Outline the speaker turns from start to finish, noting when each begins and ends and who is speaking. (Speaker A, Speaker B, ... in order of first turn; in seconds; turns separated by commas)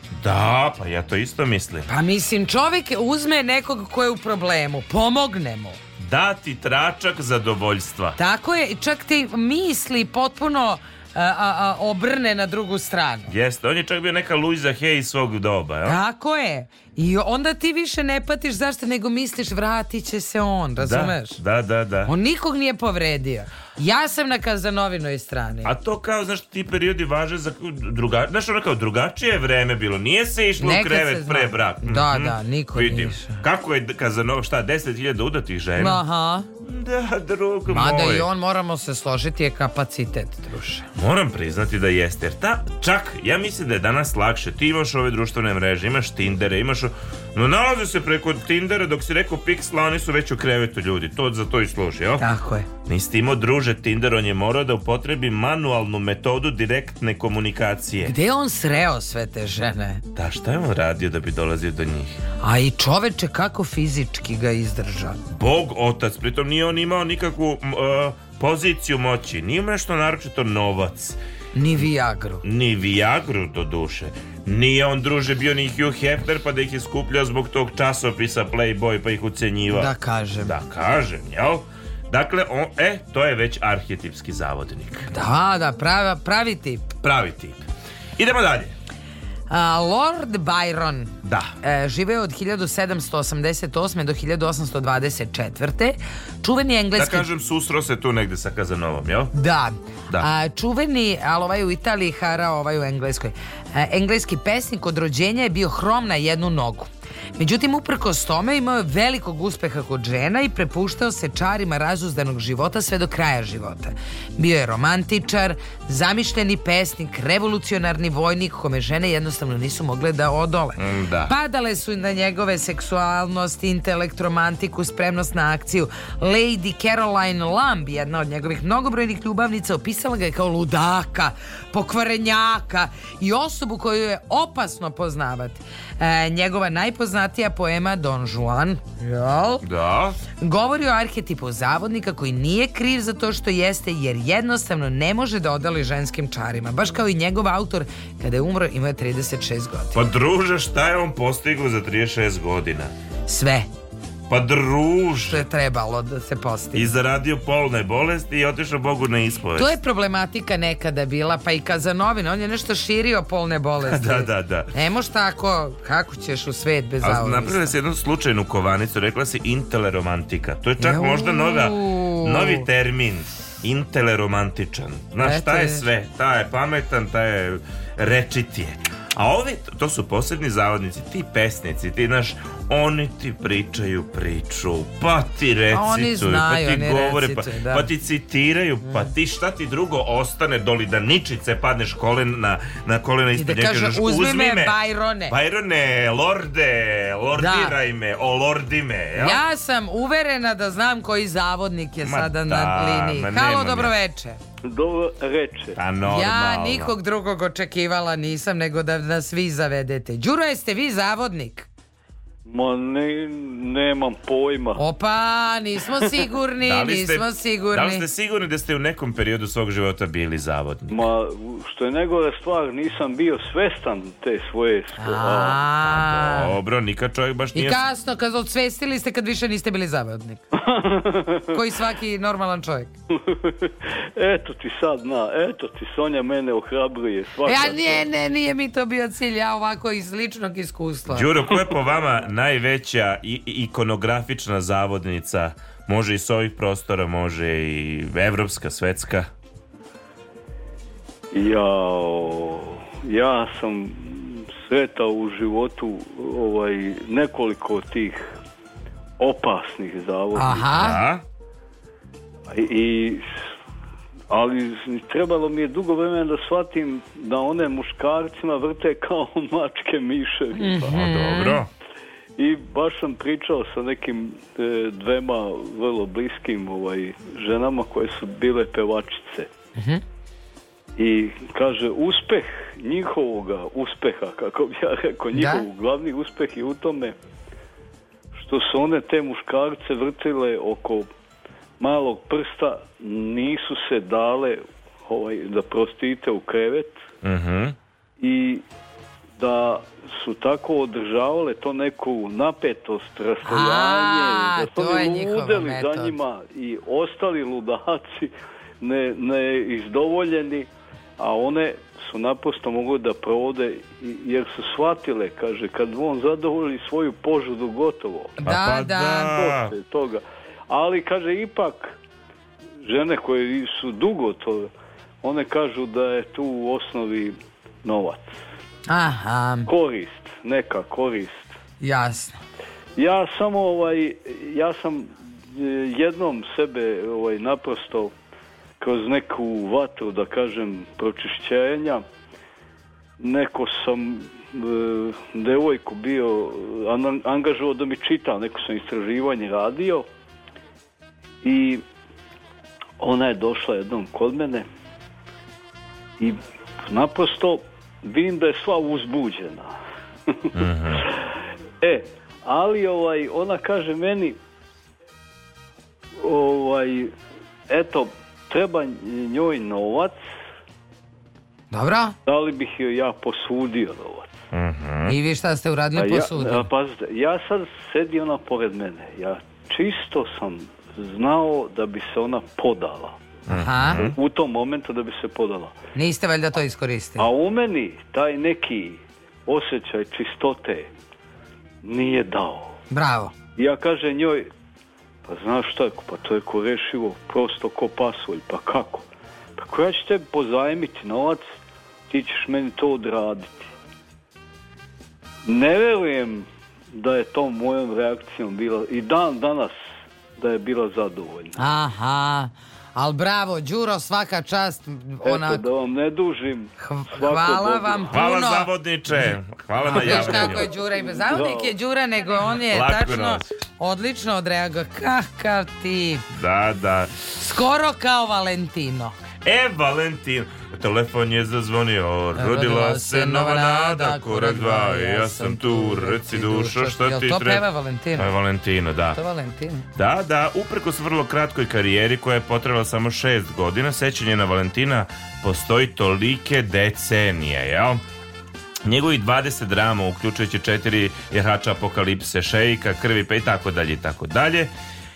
Speaker A: 0.2-1.9, Speaker B: 1.9-5.8, Speaker A: 6.0-8.2, Speaker B: 8.2-13.3, Speaker A: 13.3-16.0, Speaker B: 15.9-21.4, Speaker A: 20.8-22.1, Speaker B: 22.1-25.7, Speaker A: 25.6-36.0, Speaker B: 30.6-33.4, Speaker B: 35.8-36.5, Speaker A: 36.6-38.3, Speaker B: 37.7-40.9, Speaker A: 41.0-52.3, Speaker B: 52.2-52.7, Speaker A: 52.9-58.1, Speaker B: 58.0-60.0, Speaker A: 60.2-62.2, Speaker B: 62.4-65.2, Speaker A: 65.3-71.2, Speaker B: 71.5-72.4, Speaker A: 72.4-85.1, Speaker B: 79.7-80.5, Speaker B: 85.1-86.9, Speaker A: 87.0-87.6, Speaker A: 88.2-88.7, Speaker B: 89.5-97.3, Speaker A: 91.2-91.5, Speaker A: 97.0-99.3, Speaker B: 99.3-139.6, Speaker A: 120.8-121.3, Speaker A: 139.6-140.2, Speaker B: 140.4-150.0, Speaker A: 149.9-152.9, Speaker B: 153.3-153.7, Speaker A: 154.3-155.5, Speaker B: 155.3-156.9, Speaker A: 156.8-159.8, Speaker B: 159.6-167.8, Speaker A: 163.8-164.7, Speaker A: 167.0-199.4, Speaker B: 170.8-172.7, Speaker B: 175.2-175.9, Speaker B: 185.7-187.9, Speaker B: 193.4-195.3, Speaker B: 197.3-197.8, Speaker B: 199.2-204.4, Speaker A: 202.0-203.9, Speaker C: 204.7-205.8, Speaker A: 205.8-206.9, Speaker B: 206.1-211.7, Speaker C: 212.5-214.8, Speaker B: 214.8-218.1, Speaker A: 216.7-221.0, Speaker C: 220.9-225.6, Speaker B: 225.0-226.5, Speaker A: 225.9-227.8, Speaker B: 227.6-230.4, Speaker C: 230.5-231.6, Speaker B: 231.5-232.9, Speaker C: 233.1-238.0, Speaker B: 237.4-241.3, Speaker A: 241.1-249.3, Speaker C: 251.3-258.3, Speaker C: 259.2-260.8, Speaker B: 260.4-261.0, Speaker A: 260.8-261.2, Speaker C: 262.5-263.3, Speaker C: 264.3-271.0, Speaker B: 270.6-271.6, Speaker A: 270.9-271.7, Speaker C: 272.4-279.5, Speaker B: 279.8-280.0, Speaker C: 281.0-287.2, Speaker B: 285.3-285.7, Speaker C: 288.4-291.1, Speaker C: 291.8-297.0, Speaker A: 297.2-297.8, Speaker C: 298.2-298.6, Speaker C: 299.4-318.4, Speaker B: 303.4-306.2, Speaker B: 318.4-319.3, Speaker A: 318.4-319.8, Speaker C: 319.3-322.0, Speaker C: 322.8-324.7, Speaker C: 325.2-328.4, Speaker B: 328.9-329.7, Speaker C: 329.7-331.6, Speaker B: 331.8-332.4, Speaker C: 333.0-338.1, Speaker C: 338.8-342.0, Speaker C: 343.2-350.1, Speaker C: 351.4-351.8, Speaker C: 353.0-354.7, Speaker C: 356.2-359.8, Speaker A: 360.5-361.1, Speaker C: 361.8-364.4, Speaker C: 366.2-367.1, Speaker C: 367.7-370.2, Speaker B: 371.7-372.1, Speaker C: 372.3-374.3, Speaker A: 374.5-375.2, Speaker B: 375.1-376.7, Speaker C: 375.9-383.2, Speaker A: 383.5-384.2, Speaker B: 383.5-384.0, Speaker C: 384.0-385.7, Speaker B: 385.9-387.3, Speaker C: 387.2-390.9, Speaker C: 391.8-392.8, Speaker B: 392.9-393.3, Speaker C: 393.6-394.5, Speaker C: 395.3-399.1, Speaker C: 399.6-401.5, Speaker C: 402.1-403.7, Speaker C: 405.4-409.8, Speaker C: 410.4-411.6, Speaker B: 411.6-415.6, Speaker C: 415.2-418.2, Speaker B: 416.8-426.3, Speaker A: 418.1-420.7, Speaker C: 419.9-421.8, Speaker A: 422.6-423.5, Speaker A: 426.3-427.1, Speaker B: 427.3-429.1, Speaker A: 429.4-437.6, Speaker B: 432.4-438.3, Speaker A: 438.2-439.2, Speaker B: 439.1-439.9, Speaker A: 440.0-448.0, Speaker A: 448.9-454.7